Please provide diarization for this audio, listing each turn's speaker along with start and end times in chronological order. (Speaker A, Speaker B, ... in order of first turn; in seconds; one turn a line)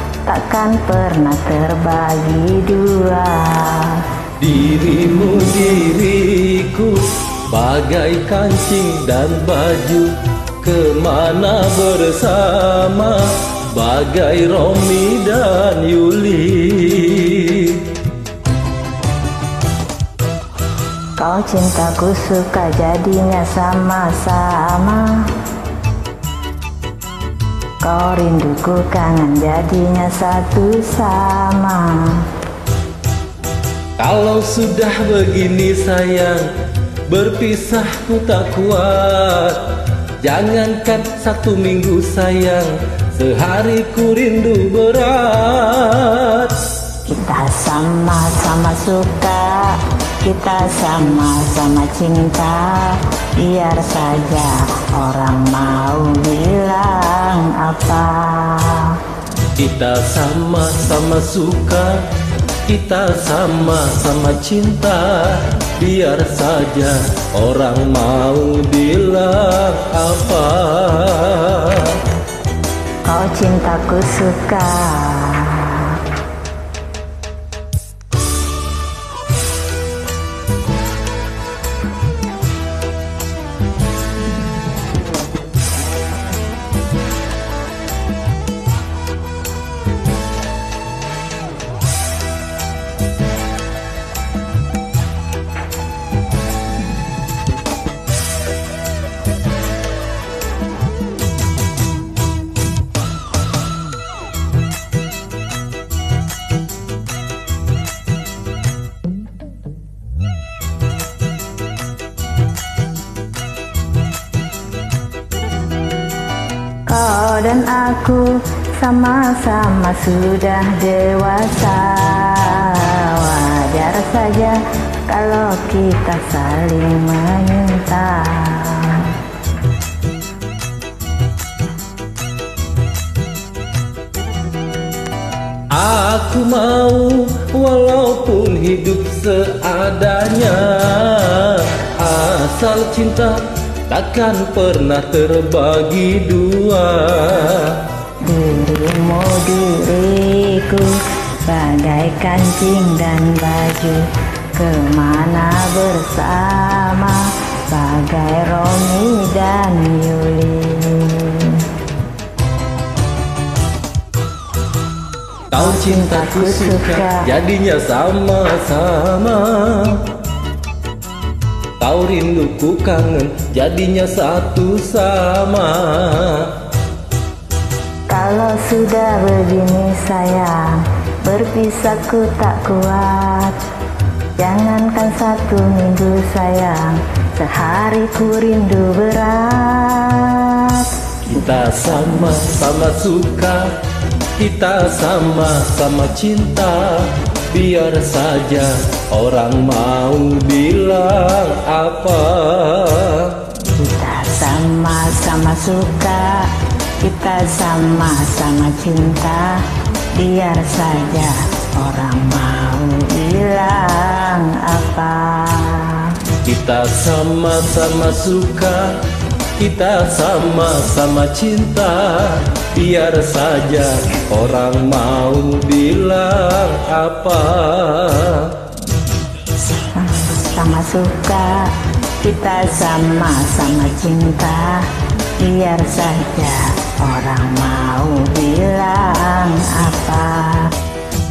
Speaker A: 0.2-4.1
Speaker B: 4.4-17.8
Speaker A: 21.2-25.3
Speaker A: 27.8-32.3
Speaker B: 34.0-36.5
Speaker B: 37.1-39.6
Speaker B: 40.2-46.6
Speaker A: 47.1-59.0
Speaker B: 59.6-62.0
Speaker B: 62.7-72.0
Speaker A: 73.1-76.0
Speaker A: 116.9-129.2
Speaker B: 135.7-147.8
Speaker A: 148.2-150.9
Speaker A: 151.4-161.7
Speaker B: 165.5-170.0
Speaker A: 165.6-167.3
Speaker B: 171.8-176.5
Speaker A: 178.1-183.6
Speaker A: 184.4-190.9
Speaker B: 191.2-193.7
Speaker B: 194.4-203.3
Speaker A: 203.6-209.6
Speaker A: 210.2-216.2
Speaker B: 216.4-219.0
Speaker B: 219.6-228.5
Speaker A: 229.7-234.9
Speaker A: 235.4-240.7